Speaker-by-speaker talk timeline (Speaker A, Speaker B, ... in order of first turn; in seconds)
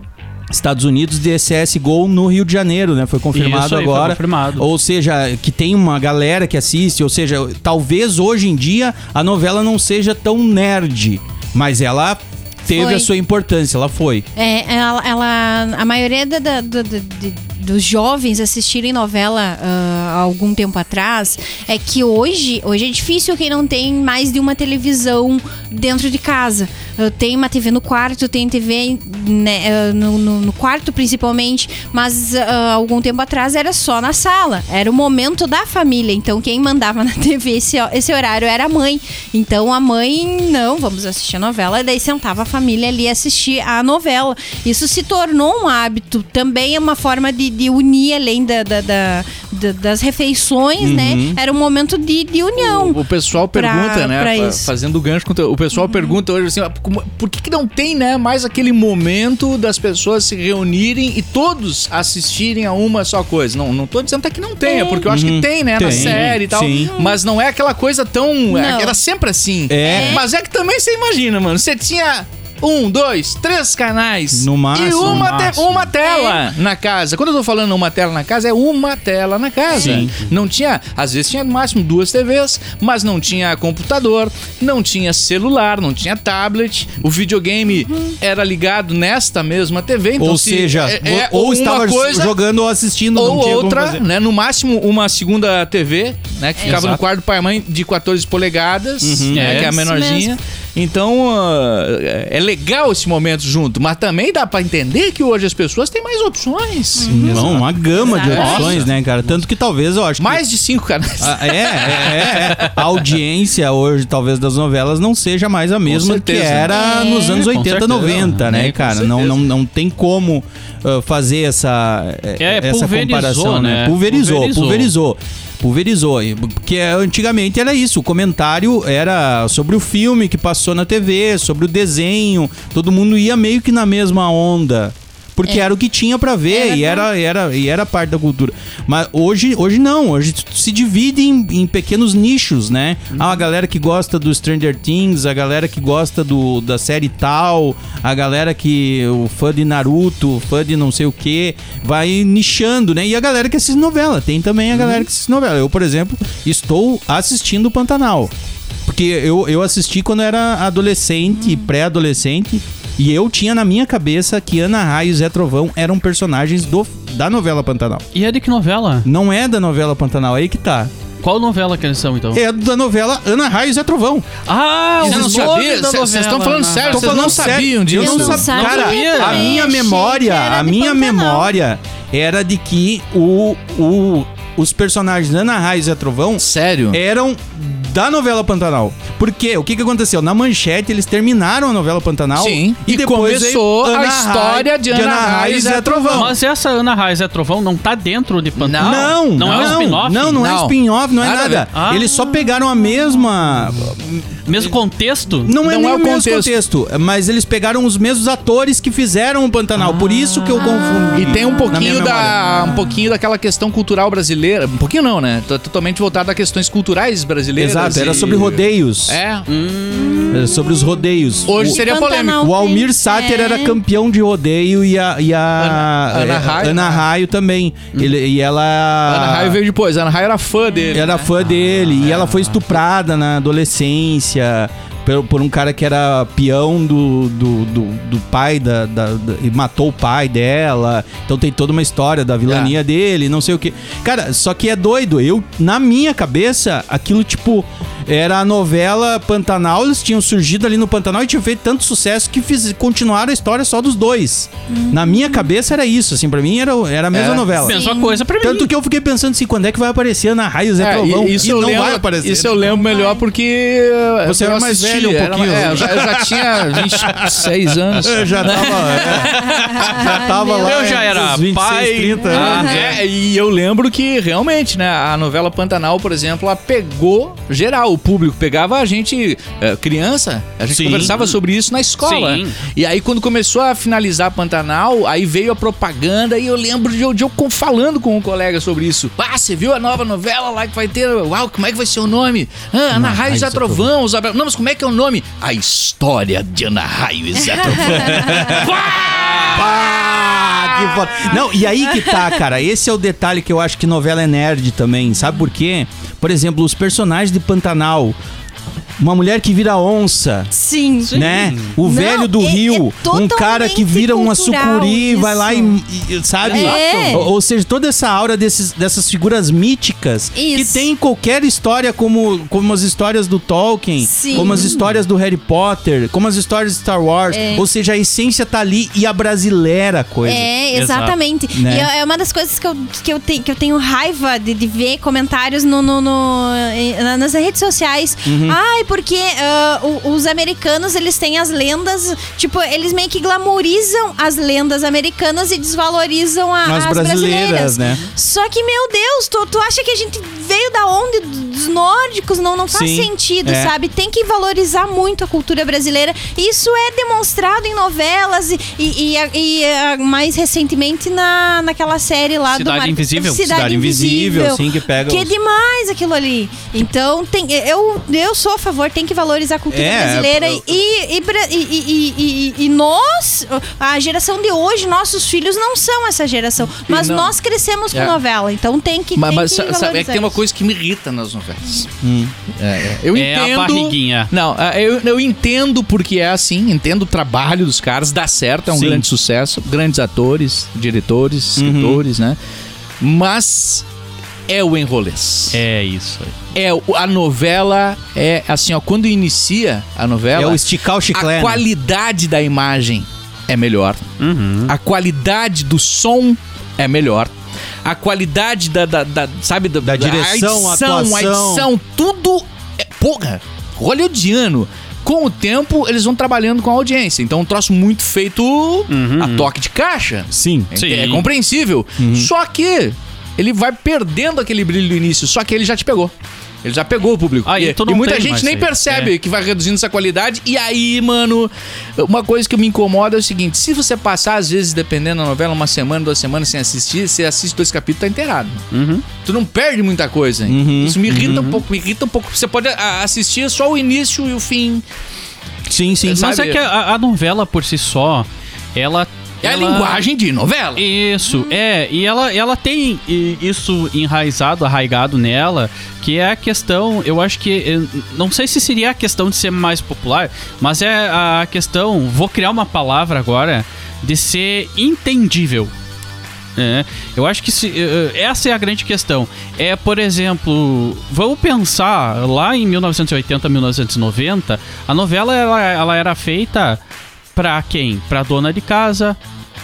Speaker A: 0.5-14.2, 50.8-51.4, 65.0-66.9, 69.7-70.2, 74.3-75.4, 79.7-80.1, 90.2-94.0, 99.0-99.7, 107.1-110.4, 111.2-158.3, 158.8-168.0, 169.0-170.9, 172.3-174.4, 175.0-175.6, 176.9-196.3, 198.8-204.2, 205.4-212.7, 217.6-219.2, 220.3-229.6, 230.9-257.8, 258.4-262.8, 264.2-267.4, 268.0-273.0, 280.7-281.1, 292.9-293.9, 297.6-298.8, 299.5-308.2, 309.0-310.5, 311.1-330.5, 331.5-331.9, 338.2-338.6, 346.6-348.0, 352.7-353.7, 363.4-365.3, 369.7-370.6, 382.0-382.3, 388.7-389.1, 391.6-392.0, 400.3-401.6, 409.8-411.7, 420.3-420.7, 422.0-422.3, 440.5-441.3, 445.7-446.3
Speaker B: 3.3-4.7, 65.8-66.4, 75.0-75.9, 96.6-97.0, 99.3-99.8, 108.5-109.3, 117.2-118.5, 122.4-124.9, 154.7-155.0, 168.1-169.1, 171.2-172.4, 174.4-177.6, 178.4-179.7, 196.1-200.4, 201.7-202.1, 204.4-205.6, 217.9-218.6, 219.5-220.4, 257.6-258.7, 269.2-273.0, 280.8-281.4, 282.0-282.6, 311.1-311.7, 316.8-317.1, 324.3-324.9, 330.7-331.1, 362.5-363.5, 383.1-384.3, 395.5-396.4, 404.2-404.7, 418.9-419.5, 420.7-421.3, 427.4-429.1, 438.7-439.0, 441.1-441.6, 446.1-450.0, 450.8-465.7, 466.6-476.8, 477.3-479.2
Speaker C: 12.7-13.1, 14.3-53.0, 53.5-54.7, 55.8-56.1, 64.6-65.0, 68.5-69.0, 69.8-70.2, 76.0-76.4, 99.7-100.3, 107.0-108.7, 116.7-117.5, 136.5-137.1, 177.9-181.5, 210.8-211.1, 221.6-223.8, 254.7-255.4, 257.6-258.2, 262.7-263.2, 269.7-270.9, 297.8-298.4, 301.9-302.3, 310.5-315.8, 316.5-317.2, 320.3-320.9, 324.0-324.6, 327.3-327.6, 330.2-380.4
Speaker D: 52.6-92.3, 93.2-107.6, 108.1-108.8, 110.2-112.8, 115.9-116.8, 118.5-119.4, 175.1-178.5, 186.4-187.0, 192.3-196.3, 198.6-201.7, 205.6-206.5, 211.1-218.6, 219.1-219.5, 221.5-222.4, 225.6-227.0, 229.1-231.3, 231.9-232.6, 242.5-242.7, 257.1-257.5, 260.8-269.4, 272.3-299.9, 376.9-377.3, 377.9-378.2, 379.1-381.9, 382.5-392.4, 393.0-393.8, 394.5-395.6, 396.5-404.0, 404.7-426.1, 426.6-438.6, 439.2-444.8, 446.0-446.6, 449.4-450.8